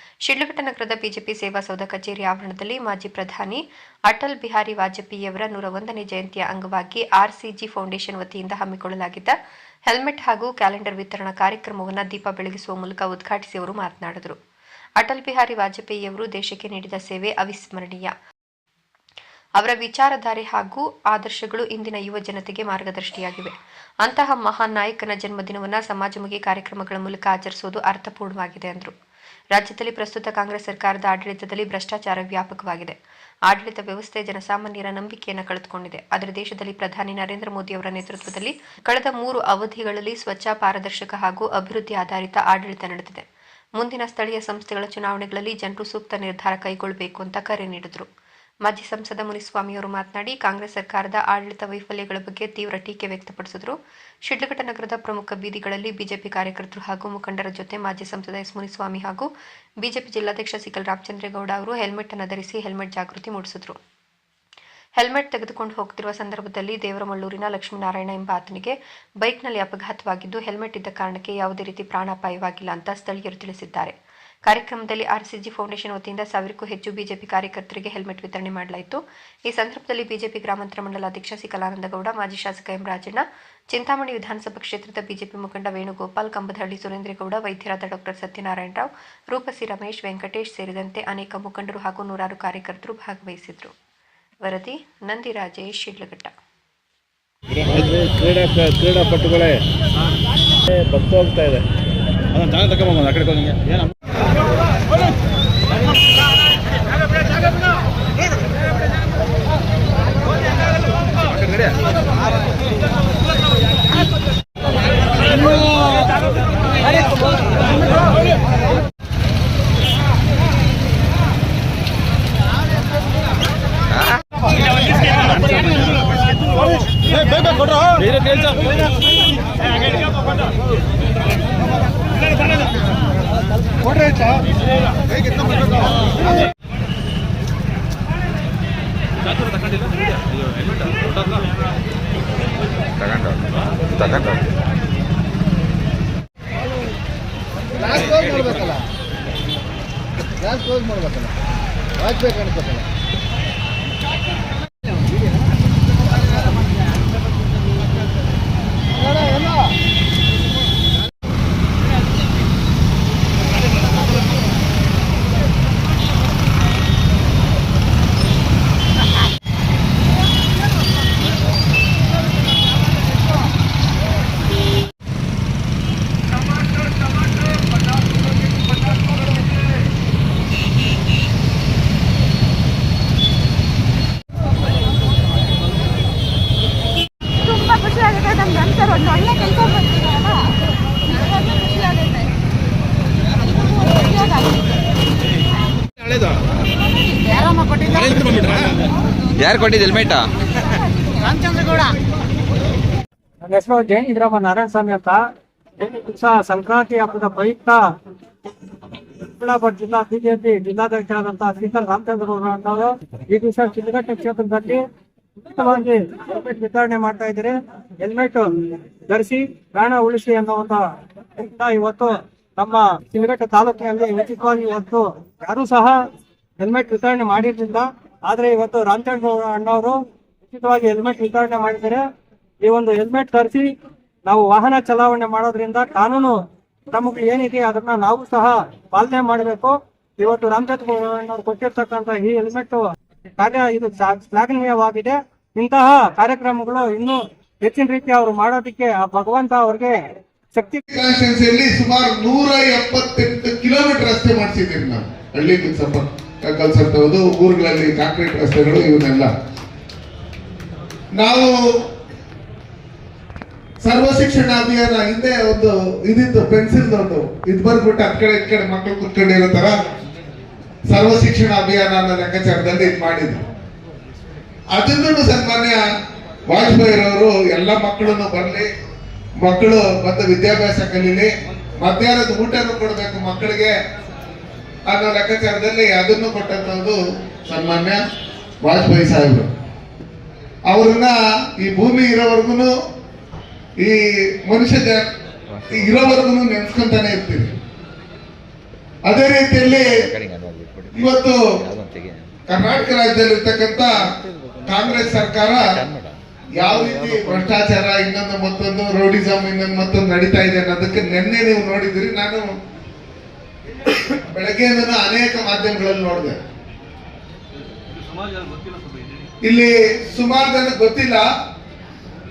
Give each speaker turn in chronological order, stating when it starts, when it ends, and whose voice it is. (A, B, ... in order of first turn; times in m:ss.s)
0:00.2-0:09.4 A
0:09.9-0:14.4 A
0:15.0-0:18.1 A
0:19.6-0:28.9 A
0:29.5-0:33.0 A
0:33.5-0:43.2 A
0:43.8-0:48.1 A
0:48.6-0:59.3 A
0:59.8-1:03.8 A
1:05.0-1:14.0 A
1:14.5-1:33.7 A
1:34.4-1:36.3 A
1:37.6-1:39.6 B
1:40.7-1:41.6 B
1:42.3-1:43.8 B
1:51.3-1:51.8 C
2:23.0-2:24.6 C
2:27.9-2:28.6 C
3:17.9-3:18.6 C
3:19.4-3:20.2 C
3:23.4-3:25.2 D
3:25.8-3:27.8 D
3:29.2-3:34.8 D
3:35.5-3:46.0 D
3:46.6-3:52.0 D
3:52.6-3:53.7 D
3:54.2-3:56.4 D
3:56.9-4:10.8 D
4:10.9-4:19.3 E
4:21.1-4:21.8 E
4:23.8-4:29.8 E
4:30.9-4:33.4 E
4:34.7-4:35.8 E
4:36.5-4:38.7 E
4:39.4-4:43.7 E
4:44.9-4:48.0 E
4:48.6-4:49.5 E
4:50.7-4:52.7 E
4:53.8-4:55.1 E
4:55.5-4:56.0 C
4:55.7-4:57.6 E
4:59.1-4:59.9 E
4:59.8-5:02.3 C
5:01.0-5:01.4 E
5:02.5-5:04.0 E
5:04.1-5:06.2 C
5:04.6-5:05.7 E
5:06.6-5:12.6 E
5:07.1-5:07.3 C
5:13.9-5:16.4 E
5:19.4-5:21.3 E